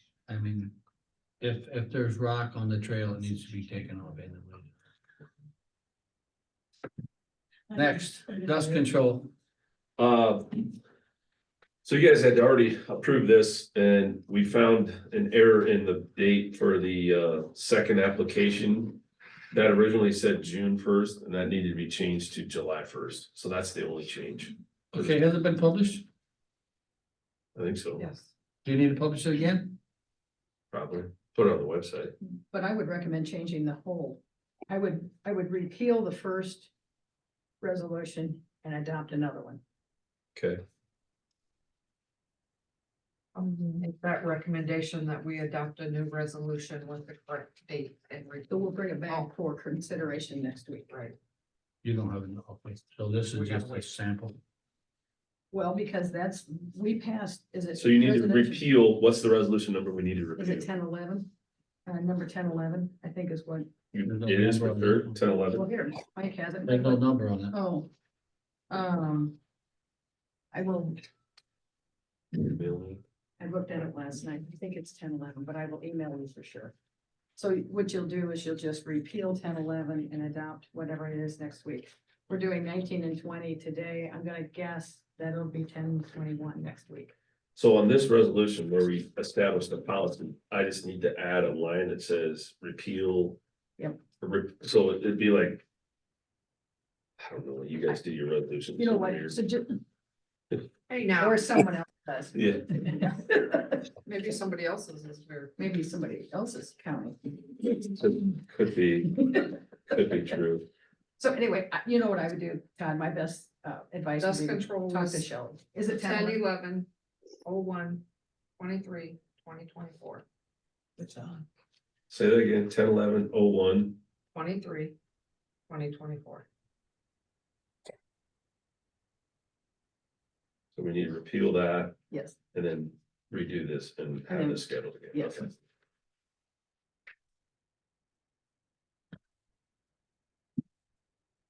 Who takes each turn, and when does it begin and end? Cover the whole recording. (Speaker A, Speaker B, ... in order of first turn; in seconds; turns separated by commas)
Speaker A: 0.3-0.8, Speaker A: 1.4-4.7, Speaker B: 7.7-8.8, Speaker A: 7.7-9.3, Speaker C: 10.0-10.7, Speaker C: 11.8-19.0, Speaker C: 19.5-24.5, Speaker A: 24.9-26.0, Speaker C: 27.6-28.1, Speaker D: 28.0-28.3, Speaker A: 28.6-29.7, Speaker C: 30.7-32.1, Speaker B: 32.5-36.7, Speaker B: 37.6-39.6, Speaker C: 40.3-40.6, Speaker D: 43.3-49.3, Speaker B: 48.5-50.9, Speaker D: 50.9-51.1, Speaker A: 51.8-54.4, Speaker D: 53.3-53.8, Speaker B: 55.5-58.7, Speaker C: 57.8-60.7, Speaker B: 60.4-61.3, Speaker B: 61.9-63.7, Speaker C: 63.9-65.7, Speaker A: 64.0-65.2, Speaker B: 65.5-67.9, Speaker A: 66.6-67.5, Speaker B: 68.7-69.4, Speaker B: 70.5-71.0, Speaker C: 72.3-73.0, Speaker B: 73.4-76.7, Speaker B: 77.3-87.1, Speaker C: 87.5-93.4, Speaker C: 94.2-95.6, Speaker C: 97.2-99.4, Speaker B: 98.8-99.8, Speaker D: 100.9-101.7, Speaker B: 101.1-103.8, Speaker C: 102.3-102.8, Speaker D: 104.0-105.6, Speaker B: 105.6-107.2, Speaker C: 108.0-110.7, Speaker B: 111.2-116.4, Speaker D: 114.2-115.2, Speaker D: 115.9-116.9, Speaker D: 117.4-118.0, Speaker D: 118.6-120.2, Speaker D: 121.0-121.4, Speaker C: 122.1-124.0, Speaker D: 124.3-124.9, Speaker D: 125.7-126.4, Speaker C: 130.8-131.9, Speaker B: 132.1-132.3, Speaker C: 132.5-135.5, Speaker B: 134.3-135.4